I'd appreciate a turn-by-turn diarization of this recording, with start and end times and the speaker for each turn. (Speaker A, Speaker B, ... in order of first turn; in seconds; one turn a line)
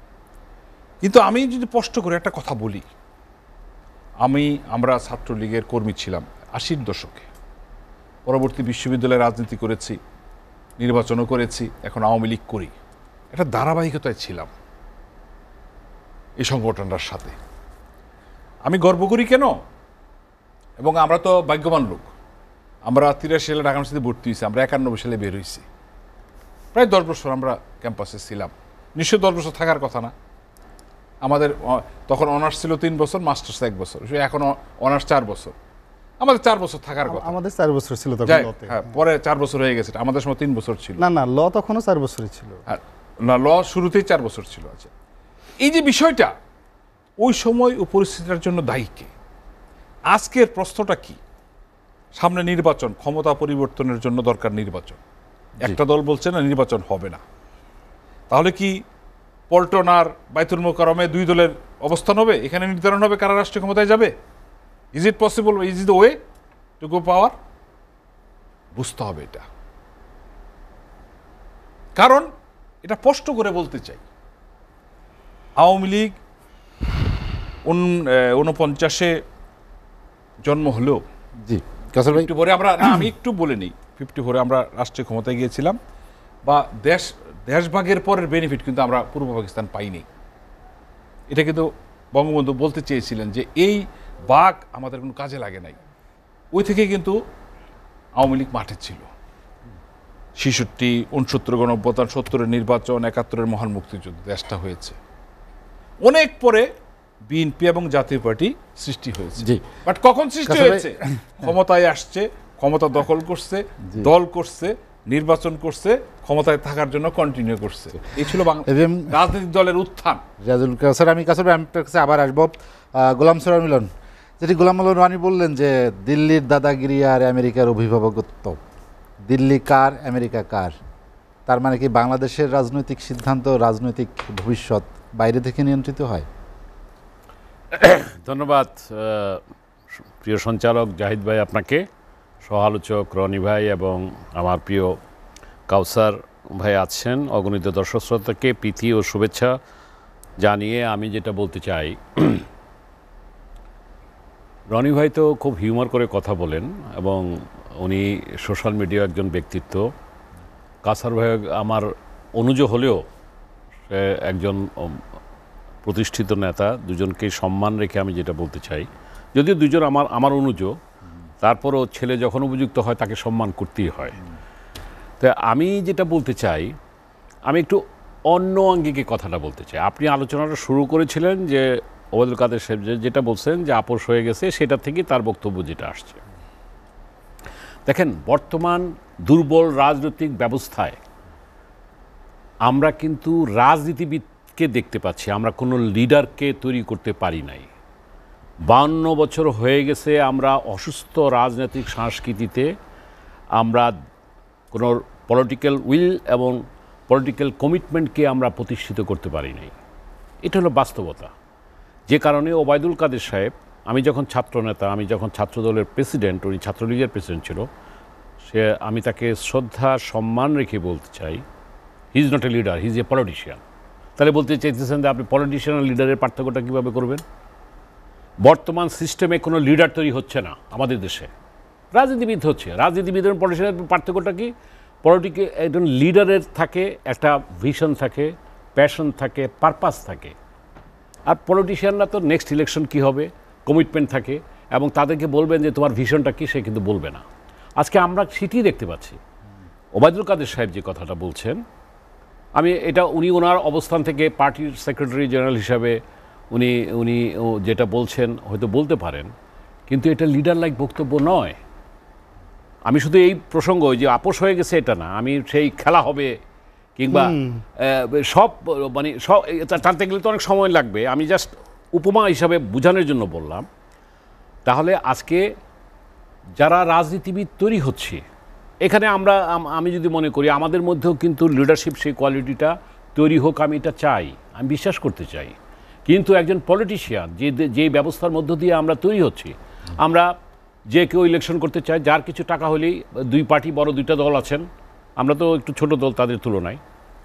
Speaker A: 1.0-2.9
Speaker A: 4.2-7.3
Speaker A: 8.2-10.0
Speaker A: 10.8-12.7
Speaker A: 13.3-14.5
Speaker A: 16.4-17.4
Speaker A: 18.6-19.6
Speaker A: 20.8-22.1
Speaker A: 22.8-25.6
Speaker A: 26.7-30.1
Speaker A: 31.2-35.5
Speaker A: 36.2-37.3
Speaker B: 37.0-38.9
Speaker A: 38.3-41.0
Speaker B: 41.0-42.6
Speaker A: 42.7-44.9
Speaker A: 45.6-46.3
Speaker A: 47.2-49.1
Speaker A: 50.1-51.2
Speaker A: 52.1-55.0
Speaker A: 55.6-57.2
Speaker A: 58.3-58.8
Speaker A: 59.5-64.1
Speaker A: 64.9-66.2
Speaker A: 66.8-67.3
Speaker A: 68.7-69.4
Speaker A: 72.0-72.3
Speaker A: 72.8-74.0
Speaker A: 75.6-76.2
Speaker A: 77.6-79.2
Speaker A: 80.4-81.0
Speaker C: 81.4-82.3
Speaker A: 82.1-85.8
Speaker A: 86.4-90.0
Speaker A: 91.3-95.8
Speaker A: 96.5-97.2
Speaker A: 98.2-99.1
Speaker A: 100.4-105.0
Speaker A: 106.0-106.7
Speaker A: 107.3-120.2
Speaker C: 109.4-109.6
Speaker C: 110.5-110.9
Speaker C: 118.6-119.1
Speaker C: 120.4-128.6
Speaker C: 129.3-130.7
Speaker C: 131.5-136.3
Speaker D: 137.7-139.4
Speaker D: 140.2-141.8
Speaker D: 142.4-145.0
Speaker D: 145.7-149.6
Speaker D: 150.4-152.4
Speaker D: 154.7-159.9
Speaker D: 160.8-163.0
Speaker D: 163.9-165.0
Speaker D: 165.8-170.7
Speaker D: 171.4-174.2
Speaker D: 175.2-176.7
Speaker D: 177.5-186.2
Speaker D: 187.9-191.0
Speaker D: 192.6-197.7
Speaker D: 198.7-202.7
Speaker D: 203.6-203.9
Speaker D: 204.7-209.7
Speaker D: 210.4-211.3
Speaker D: 212.1-217.7
Speaker D: 218.5-221.4
Speaker D: 222.1-223.6
Speaker D: 224.2-227.2
Speaker D: 228.4-231.3
Speaker D: 231.9-234.5
Speaker D: 235.0-240.3
Speaker D: 241.3-247.2
Speaker D: 247.8-249.2
Speaker D: 249.9-251.6
Speaker D: 252.6-256.0
Speaker D: 256.5-259.3
Speaker D: 259.9-261.6
Speaker D: 262.9-266.3
Speaker D: 267.0-273.7
Speaker B: 267.1-267.6
Speaker D: 274.6-275.4
Speaker D: 276.6-278.2
Speaker D: 278.8-285.5
Speaker D: 286.1-290.3
Speaker D: 290.9-294.6
Speaker D: 295.2-296.8